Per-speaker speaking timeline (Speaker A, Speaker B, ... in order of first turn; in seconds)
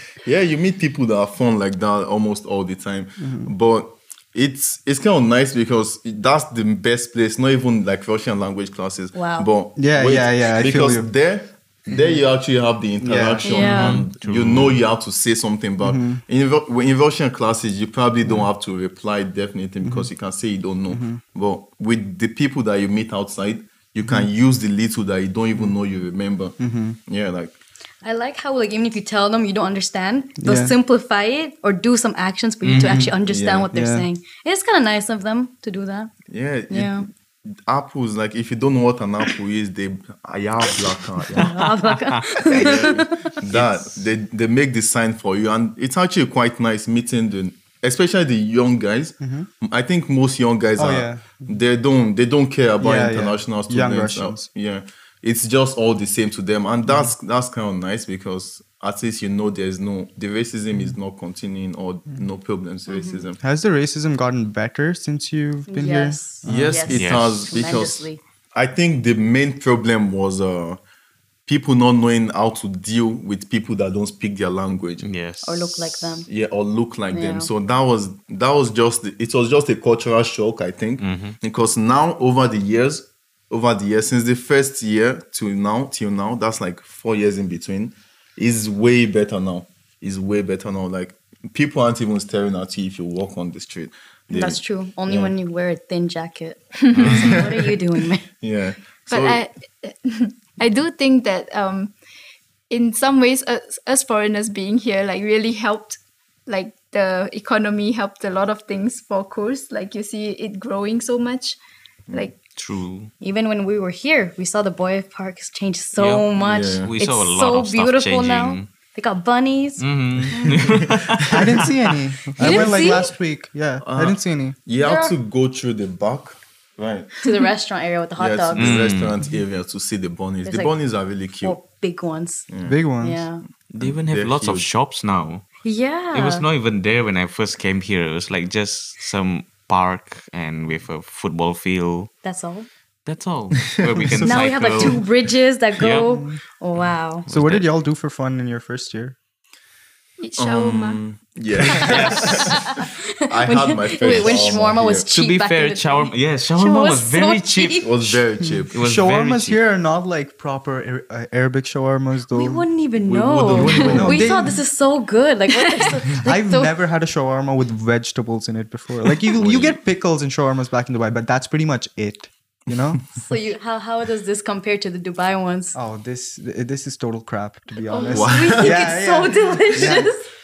Speaker A: 0.2-27.5, 33.2-33.7, 36.3-41.5, 42.4-63.4, 66.4-70.8, 71.5-75.1, 76.3-95.3, 97.0-97.7, 98.3-99.4, 116.4-116.9, 120.7-121.4, 122.4-123.0, 123.8-127.2, 128.2-131.6, 132.5-132.8, 133.8-134.7, 143.7-145.0, 150.4-155.1, 157.8-158.7, 163.0-164.4, 178.1-178.8
Speaker B: 3.2-3.5, 9.8-11.1, 11.9-12.2, 13.0-13.8, 15.8-16.2, 18.2-18.5, 19.8-20.1, 20.9-21.2, 26.6-27.0, 30.4-30.7, 32.8-33.2, 33.7-34.1, 49.2-49.5, 50.8-51.6, 52.8-54.5, 56.9-57.1, 63.4-66.8, 121.3-124.6, 132.6-133.2, 146.1-146.4, 147.3-149.2, 151.7-152.0, 158.4-162.7, 163.5-164.6, 166.1-173.0, 175.7-180.1
Speaker C: 9.1-9.5, 13.4-14.0, 28.0-36.1, 36.7-37.1, 41.3-43.4, 62.9-63.2, 65.7-68.2, 75.4-76.3, 77.1-77.5, 94.3-98.2, 113.2-120.8, 122.4-123.1, 124.8-125.2, 127.2-128.9, 130.4-130.8, 131.4-132.5, 133.0-133.4, 135.6-136.4, 142.2-142.7, 144.2-147.3, 151.8-158.2, 162.3-166.8, 173.1-175.8, 178.0-180.3
Speaker D: 13.5-14.8, 32.6-33.0, 41.4-42.9, 43.5-44.0, 66.9-67.8, 75.0-76.2, 81.0-81.4, 96.9-97.4, 112.5-113.1, 116.0-118.7, 119.8-121.9, 128.5-129.1, 133.7-135.4, 136.1-142.1, 143.1-145.0, 145.8-146.2, 147.2-147.7, 151.8-152.4, 154.0-154.5, 155.1-158.2, 158.7-159.6, 169.3-169.8
Speaker E: 99.1-101.9, 102.7-111.6, 150.2-151.0, 177.9-178.2